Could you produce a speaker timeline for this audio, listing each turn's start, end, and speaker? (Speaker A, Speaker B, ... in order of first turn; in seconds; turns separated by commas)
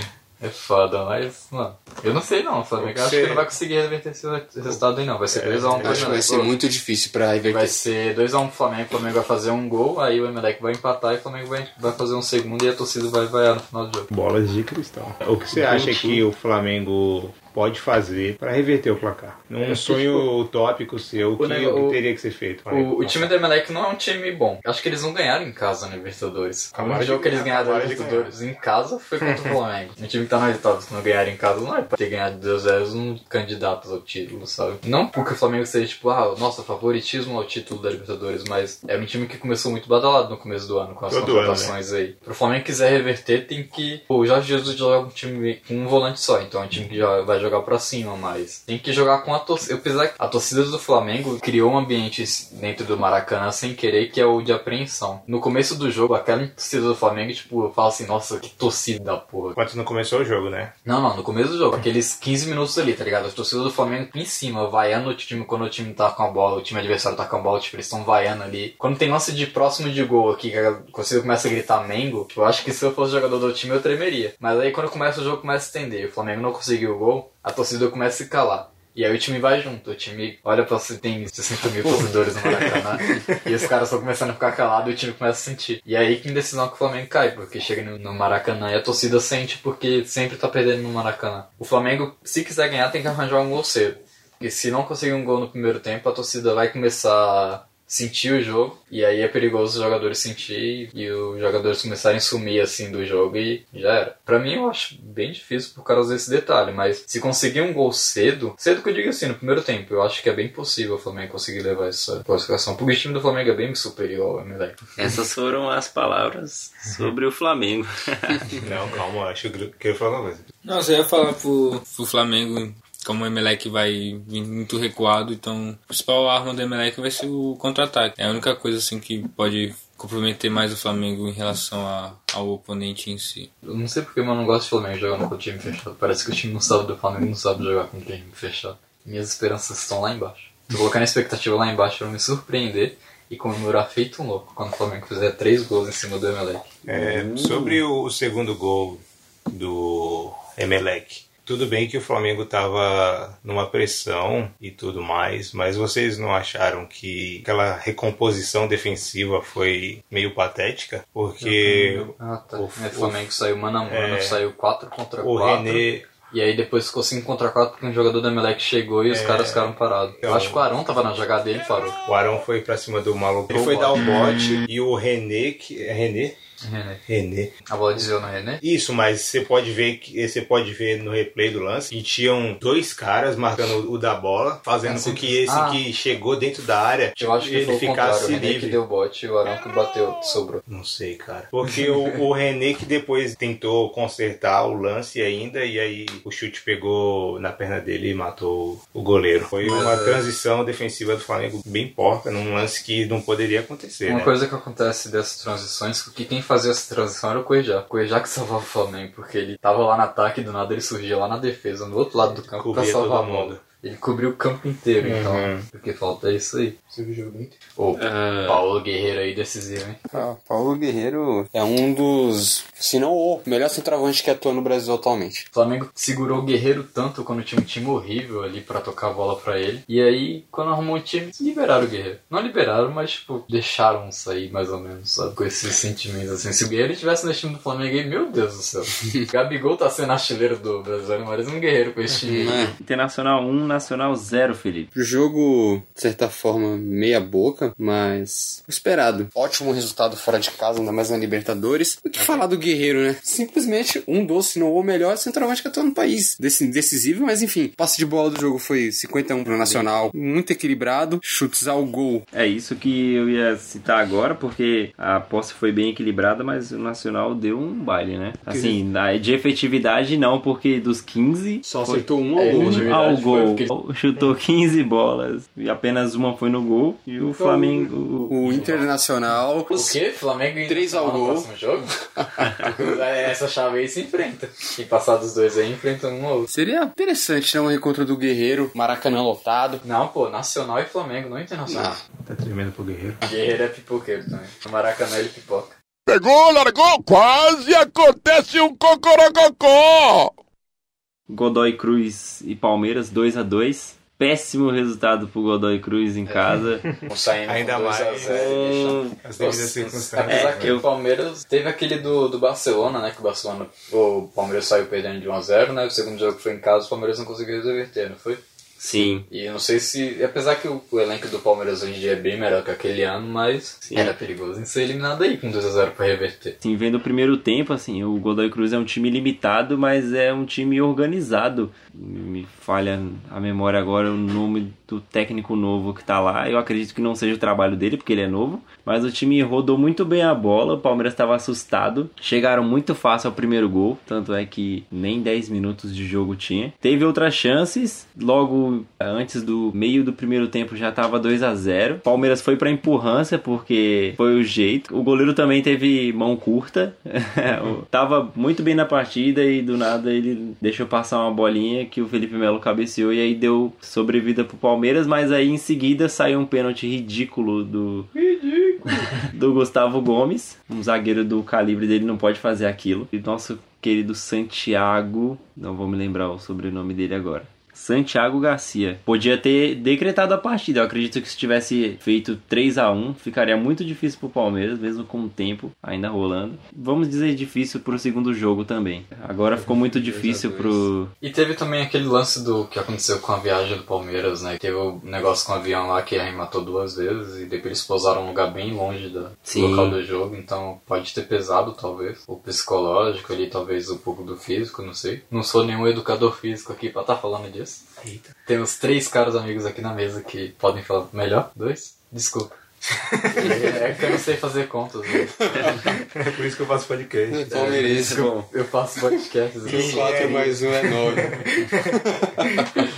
Speaker A: 0.4-6.5, Speaker B: 2.8-3.5, Speaker B: 5.3-6.2, Speaker C: 5.8-7.7, Speaker A: 7.5-14.1, Speaker B: 14.1-23.4, Speaker D: 15.5-16.2, Speaker A: 19.6-20.3, Speaker A: 21.4-22.0, Speaker A: 22.7-59.6, Speaker B: 26.7-28.3, Speaker B: 29.2-29.6, Speaker B: 41.1-41.7, Speaker B: 59.5-60.7, Speaker A: 60.9-114.8, Speaker D: 115.0-118.6, Speaker B: 118.6-120.4, Speaker E: 120.7-133.5, Speaker A: 133.6-146.7, Speaker B: 146.9-163.3, Speaker A: 161.4-172.0, Speaker B: 163.9-164.4, Speaker B: 165.2-166.1, Speaker B: 169.1-170.7, Speaker B: 172.1-176.4, Speaker A: 173.5-174.1, Speaker A: 176.6-177.0, Speaker B: 177.1-177.6, Speaker A: 177.7-178.6, Speaker B: 178.6-188.8, Speaker A: 184.8-185.8, Speaker A: 187.2-190.6, Speaker B: 190.7-204.3, Speaker A: 199.6-200.2, Speaker A: 204.1-220.0, Speaker B: 212.6-213.6, Speaker B: 215.0-215.7, Speaker D: 217.9-218.6, Speaker C: 220.1-225.5, Speaker A: 225.5-242.7, Speaker C: 242.2-242.7, Speaker D: 242.7-244.9, Speaker C: 244.9-262.3, Speaker D: 262.3-278.8, Speaker B: 268.5-268.8, Speaker C: 271.6-272.9, Speaker A: 272.4-273.7, Speaker C: 278.3-280.0, Speaker A: 279.7-281.9, Speaker C: 280.7-281.5, Speaker C: 282.2-282.7, Speaker A: 282.6-286.5, Speaker C: 286.5-289.8, Speaker A: 289.8-292.0, Speaker C: 291.7-292.0, Speaker B: 292.2-293.3, Speaker A: 293.2-295.8, Speaker F: 296.1-300.4, Speaker D: 301.3-306.9, Speaker A: 306.3-318.4, Speaker B: 307.5-308.4, Speaker D: 308.2-309.2, Speaker B: 309.2-310.8, Speaker D: 310.3-310.9, Speaker D: 318.8-319.3, Speaker A: 319.1-326.6, Speaker D: 323.9-324.1, Speaker D: 326.6-368.1, Speaker A: 368.1-369.2, Speaker D: 369.1-391.1, Speaker A: 389.9-407.8, Speaker D: 399.5-400.0, Speaker B: 408.0-408.3, Speaker A: 408.5-412.6, Speaker A: 413.2-415.7, Speaker C: 415.4-416.0, Speaker B: 416.1-417.8, Speaker C: 417.3-418.3, Speaker A: 417.5-420.4, Speaker D: 417.8-418.5, Speaker C: 419.6-422.7, Speaker B: 419.6-422.0